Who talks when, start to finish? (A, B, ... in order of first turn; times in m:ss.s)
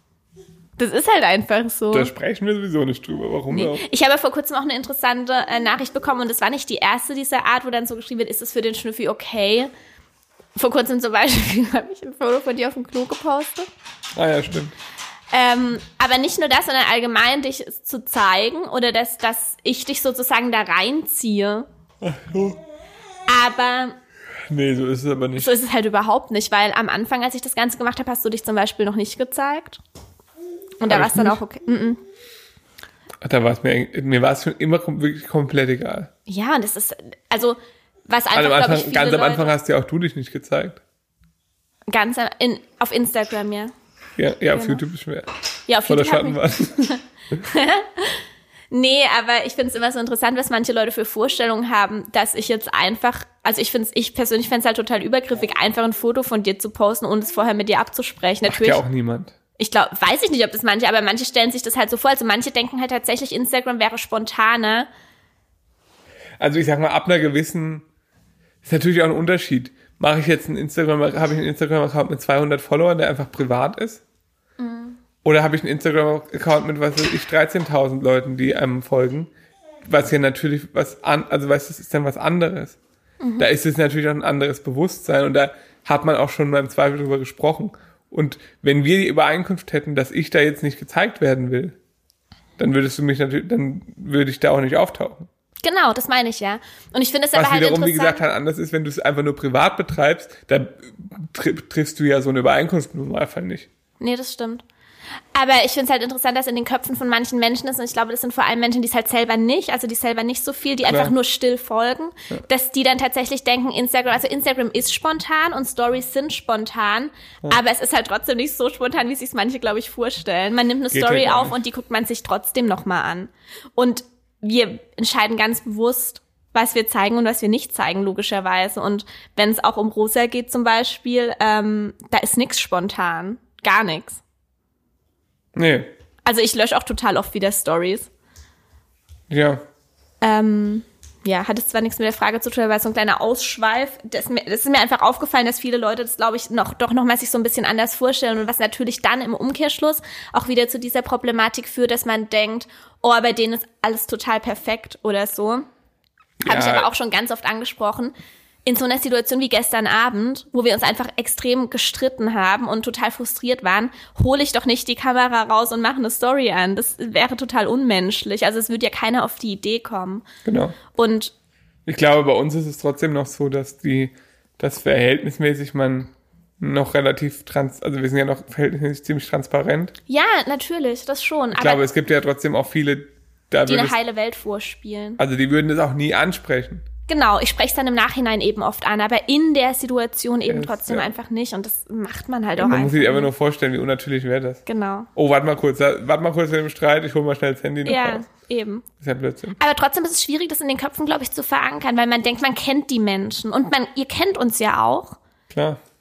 0:00.8-0:02.1 A
0:01.9-0:03.8 B
0:03.5-0:09.7 A
0:10.6-0:13.7 A
0:14.1-0:14.7 B
0:15.3-0:21.7 A
0:22.0-0:22.6 B
0:23.3-0:24.0 A
0:24.5-0:25.5 B
0:25.4-0:29.8 A
0:30.8-0:32.0 A
0:30.9-0:31.4 B
0:33.2-0:36.1 B
0:36.3-0:39.5 A
0:38.3-0:40.8 B
0:41.9-0:43.7 A
0:44.2-0:45.3 B
0:44.5-0:44.8 A
0:45.7-0:58.8 A
0:45.9-0:47.0 B
0:58.5-0:59.3 B
0:59.6-1:04.9 A
1:06.4-1:07.8 B
1:08.6-1:14.0 B
1:14.6-1:15.0 A
1:15.2-1:19.3 B
1:19.8-1:22.8 B
1:23.2-1:23.5 A
1:23.4-1:31.8 B
1:32.6-1:35.3 B
1:35.6-1:38.2 A
1:37.3-1:43.7 B
1:44.0-1:44.6 A
1:45.3-2:14.2 A
1:50.8-1:51.1 B
2:00.9-2:01.6 B
2:15.5-2:15.9 B
2:16.2-2:18.1 A
2:19.3-2:19.6 B
2:20.2-2:35.7 A
2:36.4-2:36.9 B
2:36.4-2:38.1 A
2:38.6-2:50.2 A
2:50.4-2:50.8 B
2:50.9-2:51.3 A
2:51.8-2:59.9 B
3:00.1-3:01.8 A
3:01.5-3:04.0 B
3:03.7-3:05.2 A
3:05.2-3:06.8 B
3:07.1-3:13.3 A
3:10.4-3:11.1 B
3:12.6-3:14.6 B
3:14.6-3:15.1 A
3:15.2-3:18.3 B
3:17.8-3:18.8 A
3:19.0-3:19.6 B
3:19.6-3:25.2 A
3:25.5-3:25.8 B